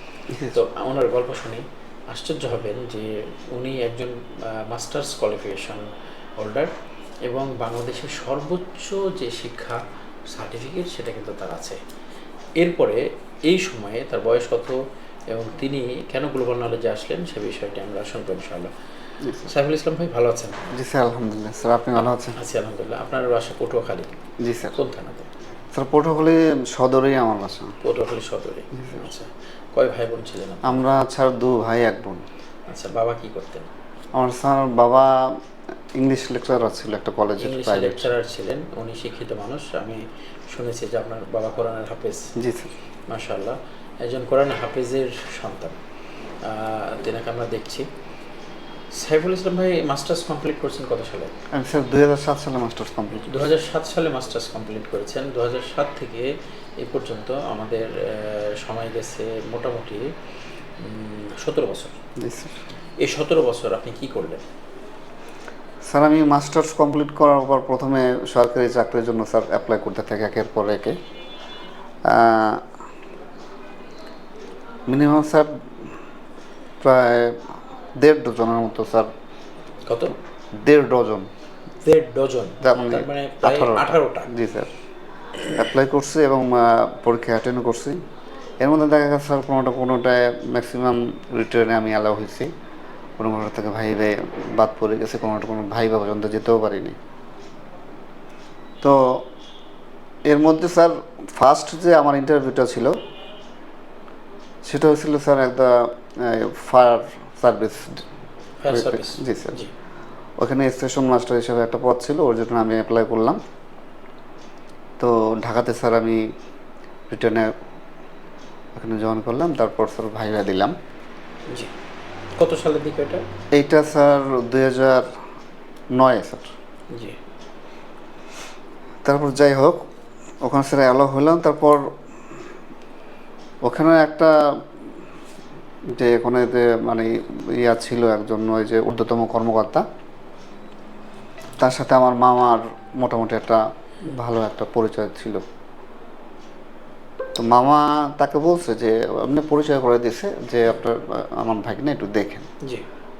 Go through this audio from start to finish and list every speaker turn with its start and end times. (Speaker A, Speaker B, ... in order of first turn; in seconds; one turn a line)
Speaker A: 0.3-0.6
Speaker B: 0.4-5.9
Speaker B: 6.4-6.7
Speaker B: 7.3-9.8
Speaker B: 10.3-11.8
Speaker B: 12.6-14.8
Speaker B: 15.3-18.7
Speaker A: 19.2-19.5
Speaker B: 19.4-20.6
Speaker A: 20.7-22.4
Speaker B: 22.4-24.1
Speaker A: 24.4-24.8
Speaker B: 24.8-25.3
Speaker A: 25.7-27.7
Speaker B: 27.8-30.8
Speaker A: 30.6-32.2
Speaker B: 32.7-33.7
Speaker A: 34.1-35.4
Speaker A: 36.0-38.1
Speaker B: 37.4-42.3
Speaker A: 42.4-42.7
Speaker B: 43.1-45.8
Speaker B: 46.4-47.9
Speaker B: 48.9-51.3
Speaker A: 51.5-53.5
Speaker B: 53.3-56.3
Speaker B: 56.8-60.0
Speaker B: 60.8-62.0
Speaker A: 62.2-62.6
Speaker B: 63.0-64.4
Speaker A: 65.8-71.0
Speaker A: 72.0-72.6
Speaker A: 74.9-75.9
Speaker A: 76.8-77.5
Speaker A: 78.0-79.1
Speaker B: 79.9-80.1
Speaker A: 80.5-81.3
Speaker B: 81.8-84.3
Speaker A: 82.6-84.7
Speaker A: 85.5-88.0
Speaker A: 88.6-92.5
Speaker A: 93.2-97.0
Speaker A: 98.8-99.3
Speaker A: 100.2-103.0
Speaker A: 104.6-108.0
Speaker B: 108.6-109.7
Speaker A: 108.7-109.6
Speaker A: 110.4-113.4
Speaker A: 115.0-116.3
Speaker A: 117.1-117.5
Speaker A: 118.7-120.7
Speaker B: 122.4-123.2
Speaker A: 123.5-125.1
Speaker A: 125.9-126.5
Speaker B: 126.9-127.2
Speaker A: 129.0-129.8
Speaker A: 130.4-131.9
Speaker A: 133.6-134.6
Speaker A: 135.9-139.8
Speaker A: 141.6-145.4
Speaker A: 147.3-152.5